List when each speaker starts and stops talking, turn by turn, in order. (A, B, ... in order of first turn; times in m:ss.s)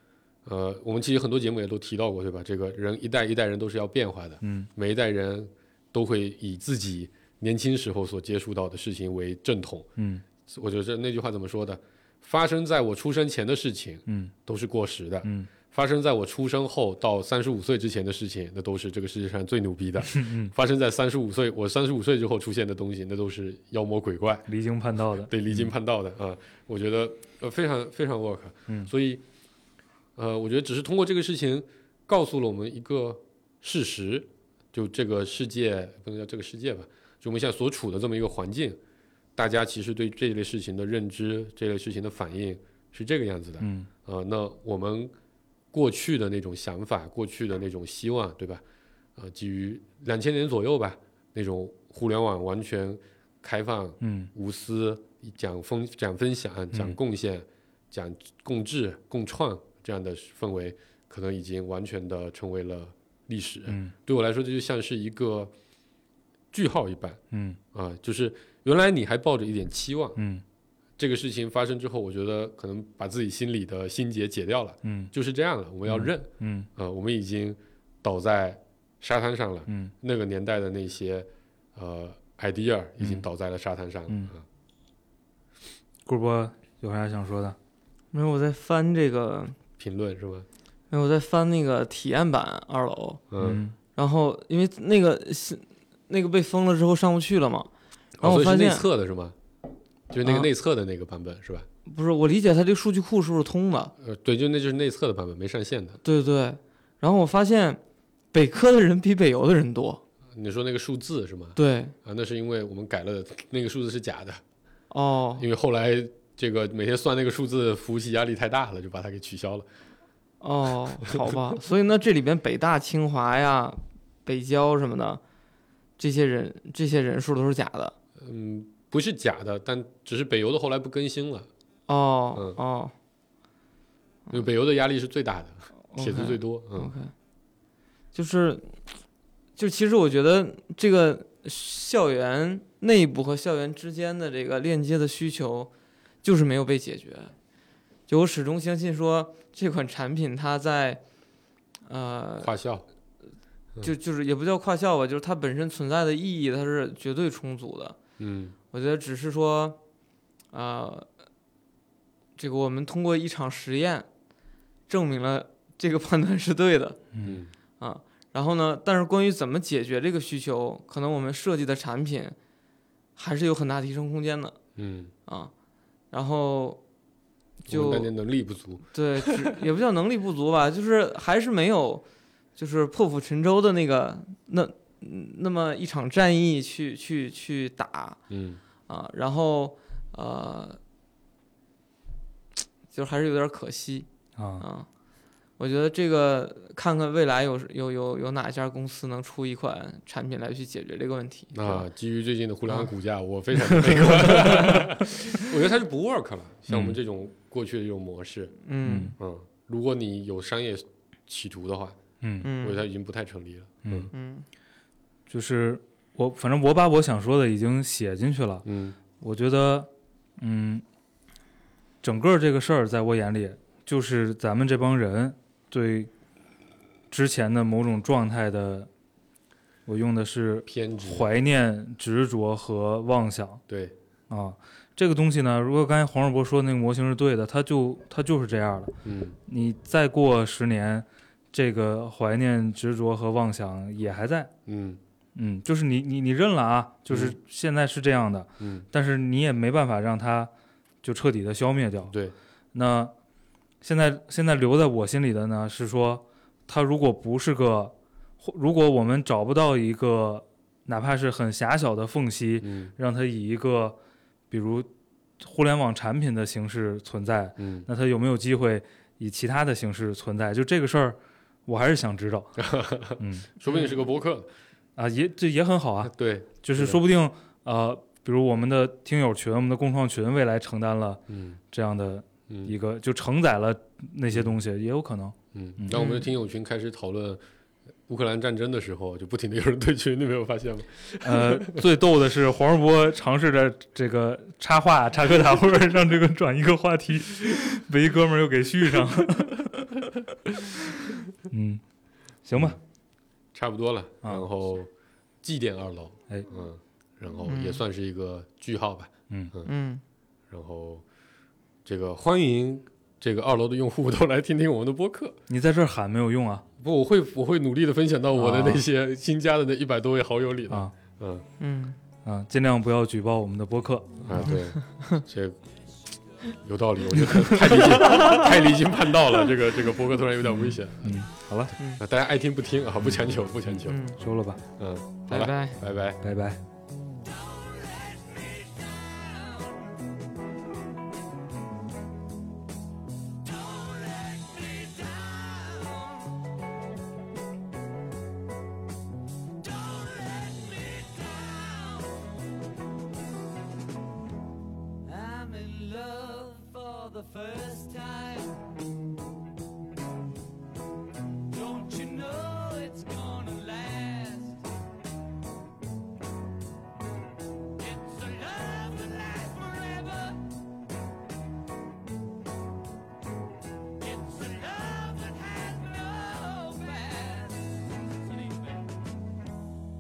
0:00.4-0:09.9 A
0:04.4-0:04.7 B
0:10.0-0:10.2 B
0:10.4-0:24.5 A
0:14.1-0:14.3 B
0:15.2-0:15.5 B
0:20.0-0:20.5 B
0:24.5-0:25.7 B
0:25.2-0:29.2 A
0:30.2-0:38.8 A
0:39.4-0:45.1 A
0:43.6-0:43.9 B
0:45.7-0:48.6 A
0:49.2-1:05.5 A
0:54.0-0:54.3 B
1:03.7-1:03.9 B
1:06.5-1:07.2 A
1:07.3-1:07.6 B
1:07.7-1:10.2 A
1:10.2-1:10.4 B
1:11.0-1:24.4 A
1:14.8-1:15.1 B
1:15.9-1:16.7 B
1:19.7-1:19.9 B
1:26.1-1:27.6 B
1:28.1-1:29.6 C
1:29.8-1:30.5 A
1:30.9-1:33.3 C
1:33.3-1:33.6 A
1:33.4-1:33.8 B
1:34.0-1:37.7 C
1:38.2-1:39.4 A
1:38.2-1:38.8 C
1:40.1-1:41.7 A
1:41.9-1:43.9 C
1:44.0-1:46.0 A
1:46.0-1:47.8 C
1:48.3-1:50.0 C
1:50.3-1:54.4 A
1:51.6-1:52.0 C
1:54.9-1:55.5 C
1:55.4-1:59.7 A
2:00.4-2:05.2 C
2:06.0-2:08.0 C
2:08.2-2:11.5 A
2:11.9-2:12.9 C
2:12.3-2:12.6 A
2:14.3-2:16.9 A
2:15.9-2:17.1 C
2:18.1-2:18.8 C
2:19.6-2:25.7 C
2:26.2-2:27.3 C
2:28.1-2:31.0 C
2:31.9-2:32.5 C
2:32.4-2:32.9 A
2:33.8-2:38.0 C
2:38.2-2:38.6 A
2:38.7-2:39.8 C
2:40.5-2:41.1 C
2:42.4-2:44.1 C
2:44.9-2:47.1 C
2:47.2-2:47.5 A
2:47.8-2:52.4 C
2:53.2-2:54.6 C
2:54.8-2:55.1 A
2:56.1-2:56.8 C
2:57.6-2:58.1 C
2:57.7-2:59.5 A
2:58.9-3:02.0 C
3:02.6-3:08.2 C
3:08.3-3:08.6 A
3:08.9-3:10.8 C
3:12.9-3:14.1 C
3:14.4-3:14.6 B
3:14.6-3:14.9 C
3:15.6-3:21.9 C
3:21.5-3:28.6 A
3:23.9-3:24.7 C
3:26.7-3:27.0 B
3:28.6-3:29.2 C
3:28.8-3:29.1 B
3:29.2-3:32.0 A
3:32.2-3:32.5 B
3:32.4-3:32.8 C
3:32.6-3:34.1 A
3:33.8-3:34.1 B
3:34.1-3:34.5 C
3:35.3-3:38.7 B
3:38.6-3:39.0 A
3:39.2-3:40.8 B
3:42.0-3:46.1 B
3:47.1-3:48.9 B
3:49.9-3:53.6 B
3:50.7-3:51.3 A
3:53.7-3:54.0 A
3:54.3-3:58.9 B
3:59.0-3:59.4 A
3:59.5-4:04.5 B
4:04.7-4:05.0 A
4:05.4-4:10.5 B
4:07.1-4:07.4 A
4:08.6-4:08.9 A
4:11.0-4:12.1 B
4:12.1-4:12.4 A
4:12.7-4:13.1 B
4:13.8-4:24.0 B
4:22.6-4:22.9 A
4:24.5-4:24.9 B
4:25.4-4:32.6 B
4:27.6-4:27.9 A
4:32.6-4:34.5 A
4:33.2-4:33.5 B
4:35.0-4:46.1 B
4:36.0-4:37.0 A
4:41.3-4:41.6 A
4:42.5-4:42.7 A
4:45.5-4:47.4 A
4:45.9-4:46.2 C
4:48.1-4:51.8 A
4:51.2-4:59.9 B
5:01.5-5:01.8 B
5:02.4-5:02.8 B
5:03.5-5:04.9 A
5:05.4-5:09.7 A
5:07.4-5:07.8 C
5:09.6-5:10.0 C
5:10.5-5:11.0 A
5:11.8-5:15.4 A
5:15.5-5:16.6 B
5:16.8-5:21.5 A
5:18.4-5:18.8 B
5:21.6-5:22.0 C
5:22.2-5:24.6 B
5:24.2-5:25.6 A
5:26.5-5:31.2 A
5:27.5-5:28.5 C
5:30.5-5:31.7 B
5:32.0-5:34.1 A
5:33.9-5:34.2 C
5:34.2-5:34.6 B
5:34.8-5:36.2 A
5:35.3-5:35.8 C
5:36.2-5:36.6 B
5:37.2-5:39.9 D
5:43.4-5:46.4 D
5:49.6-5:52.4 D
5:55.0-5:58.7 D
6:01.5-6:04.6 D
6:07.8-6:10.5 D
6:14.0-6:18.9 D